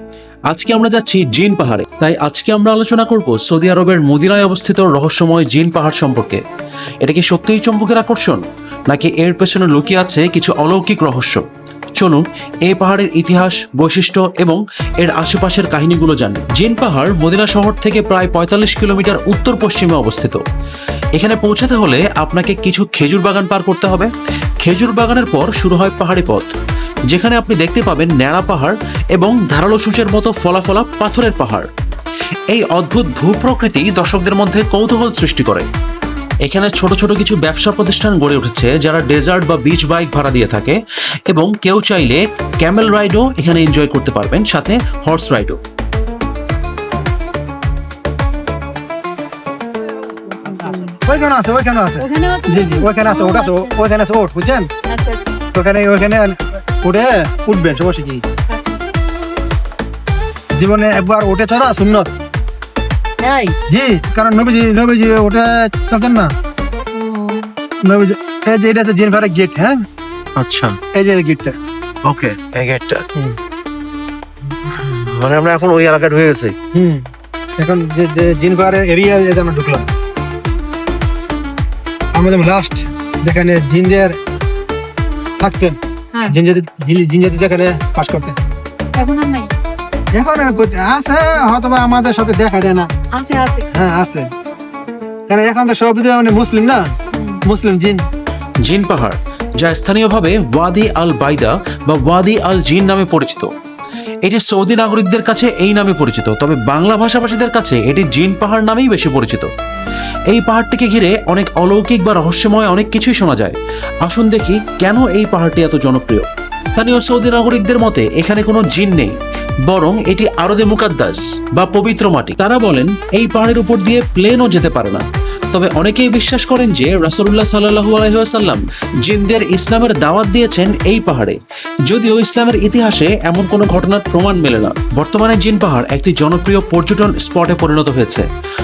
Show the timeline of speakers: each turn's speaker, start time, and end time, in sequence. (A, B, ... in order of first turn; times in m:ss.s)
0:00.5-0:06.4 A
0:07.0-0:11.4 A
0:12.0-0:20.4 A
0:21.2-0:24.1 A
0:24.6-0:26.5 A
0:27.1-0:31.7 A
0:32.5-0:35.7 A
0:36.4-0:40.8 A
0:41.3-0:45.6 A
0:50.4-0:50.9 B
0:50.8-0:54.7 C
0:52.0-0:53.8 B
0:54.9-0:55.4 B
0:55.5-0:58.2 C
0:58.5-0:58.8 B
1:00.5-1:02.1 C
1:03.2-1:03.6 B
1:03.7-1:06.3 C
1:06.9-1:07.5 B
1:07.8-1:09.8 C
1:10.4-1:10.8 A
1:10.9-1:11.5 C
1:12.0-1:13.0 A
1:14.6-1:16.5 A
1:16.7-1:17.0 C
1:17.6-1:19.8 C
1:22.1-1:24.2 C
1:25.4-1:25.8 C
1:26.3-1:28.4 C
1:28.9-1:29.5 B
1:30.1-1:32.9 C
1:33.1-1:33.6 B
1:33.7-1:34.2 C
1:35.3-1:36.8 C
1:37.1-1:37.4 B
1:37.4-1:38.0 C
1:38.6-1:43.5 A
1:44.2-1:49.5 A
1:50.3-1:59.2 A
1:59.7-2:18.2 A